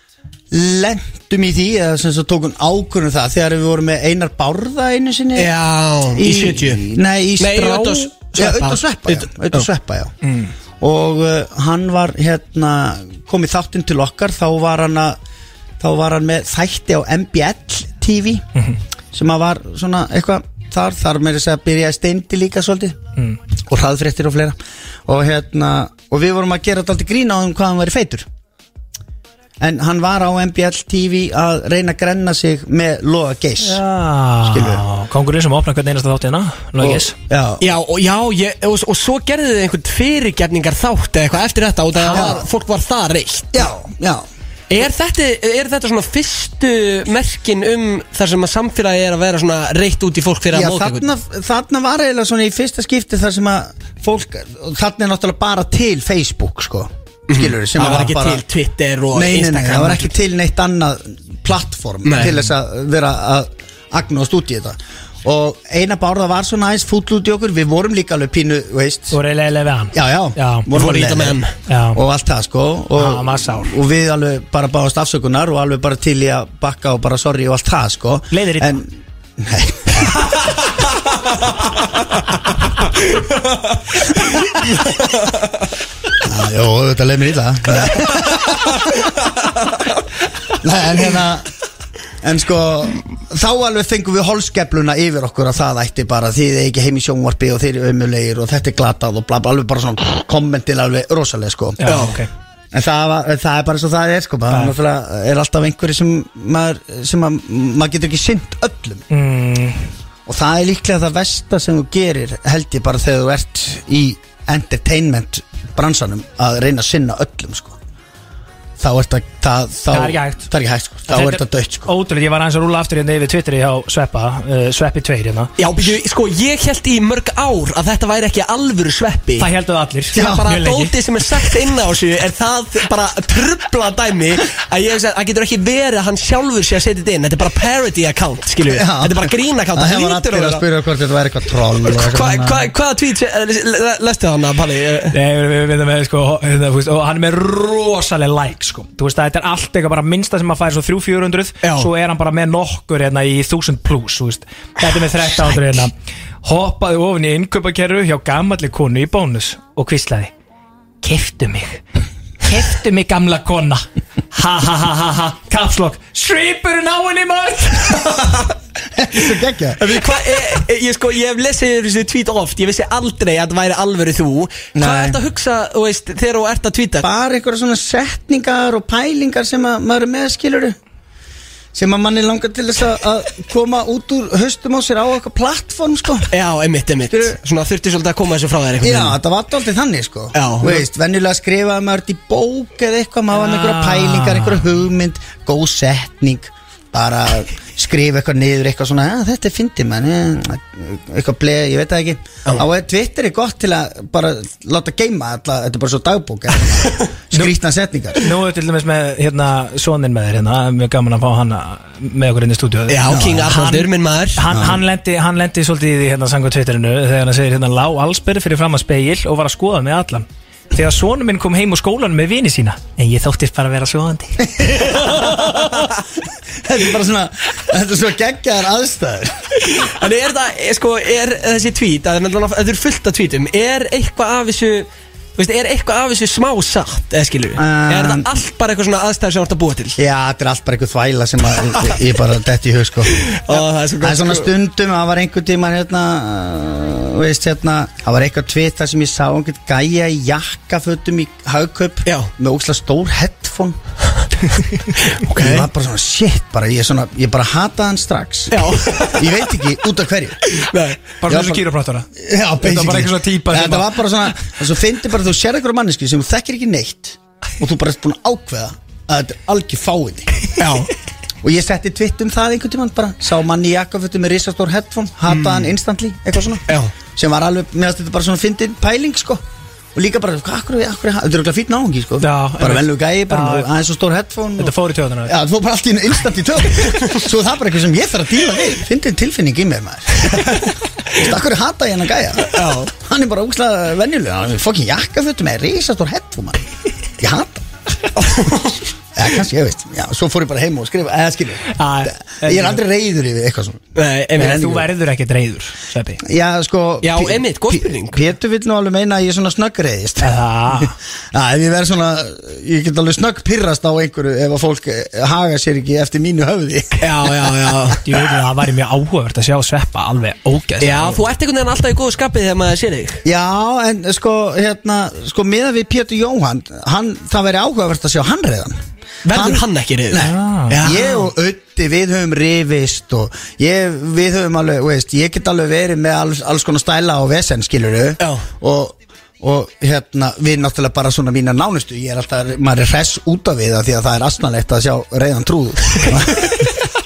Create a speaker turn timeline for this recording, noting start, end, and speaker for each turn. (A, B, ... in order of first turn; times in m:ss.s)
0:00.5-0:05.5 A
0:05.4-0:06.8 B
0:06.1-0:10.1 A
0:07.4-0:09.7 B
0:10.2-0:10.5 C
0:10.8-0:15.2 A
0:15.8-0:18.4 A
0:19.1-0:23.0 A
0:23.7-0:28.3 A
0:29.6-0:33.8 A
0:33.6-0:37.2 C
0:34.4-0:34.8 A
0:36.8-0:37.6 A
0:37.6-0:43.6 B
0:42.0-0:42.3 C
0:42.1-0:42.4 A
0:43.5-0:44.2 A
0:44.7-0:51.1 B
0:50.5-0:58.4 A
0:57.3-1:00.1 B
0:59.1-1:09.2 A
1:02.0-1:02.3 B
1:09.1-1:10.7 C
1:09.9-1:11.4 A
1:10.7-1:11.5 B
1:11.7-1:12.0 C
1:11.9-1:20.5 A
1:13.0-1:13.8 C
1:18.3-1:18.8 C
1:26.2-1:29.1 A
1:30.5-1:31.5 A
1:32.2-1:41.8 A
1:41.8-1:42.3 C
1:41.9-1:42.2 B
1:42.7-1:49.0 A
1:49.1-1:49.9 C
1:50.3-1:57.8 A
1:58.8-2:01.9 A
1:59.9-2:00.5 C
2:01.1-2:05.5 C
2:05.6-2:09.5 B
2:09.4-2:10.9 C
2:10.1-2:20.6 B
2:10.1-2:10.5 A
2:18.7-2:22.7 A
2:21.8-2:25.2 B
2:25.1-2:35.9 C
2:31.6-2:31.9 B
2:36.4-2:40.3 C
2:41.0-2:41.8 C
2:42.4-2:48.3 C
2:49.0-2:50.0 A
2:49.8-2:57.0 B
2:54.8-2:55.2 A
2:57.0-3:00.8 A
3:01.7-3:06.3 A
3:06.3-3:09.2 B
3:08.8-3:28.2 A
3:10.3-3:10.8 B
3:13.3-3:14.6 C
3:28.2-3:33.8 C
3:32.9-3:34.4 B
3:33.1-3:33.8 A
3:34.4-3:45.6 C
3:34.5-3:34.8 A
3:44.5-3:45.7 A
3:46.6-3:49.6 A
3:49.6-4:00.0 B
3:57.6-3:58.3 A
4:00.0-4:13.8 A
4:03.2-4:04.5 B
4:15.0-4:15.7 B
4:15.3-4:20.4 A
4:18.5-4:19.5 B
4:20.5-4:21.0 B
4:21.2-4:24.1 C
4:21.3-4:21.6 A
4:22.2-4:30.4 A
4:30.6-4:30.9 B
4:31.4-4:36.6 A
4:35.3-4:35.7 B
4:36.7-4:36.9 B
4:37.2-4:39.4 A
4:40.0-4:56.6 A
4:42.2-4:43.7 C
4:44.6-4:45.4 C
4:52.5-4:52.9 B
4:57.2-4:57.7 A
4:58.2-4:58.8 B
4:59.2-5:03.8 A
5:01.7-5:02.8 C
5:04.0-5:04.6 B
5:04.4-5:04.9 A
5:04.4-5:06.2 C
5:06.2-5:18.0 A
5:07.0-5:08.2 B
5:10.2-5:10.9 C
5:17.0-5:18.0 B
5:18.0-5:21.2 C
5:20.8-5:23.2 B
5:23.2-5:28.8 A
5:29.2-5:31.1 B
5:29.3-5:46.7 A
5:30.2-5:31.2 C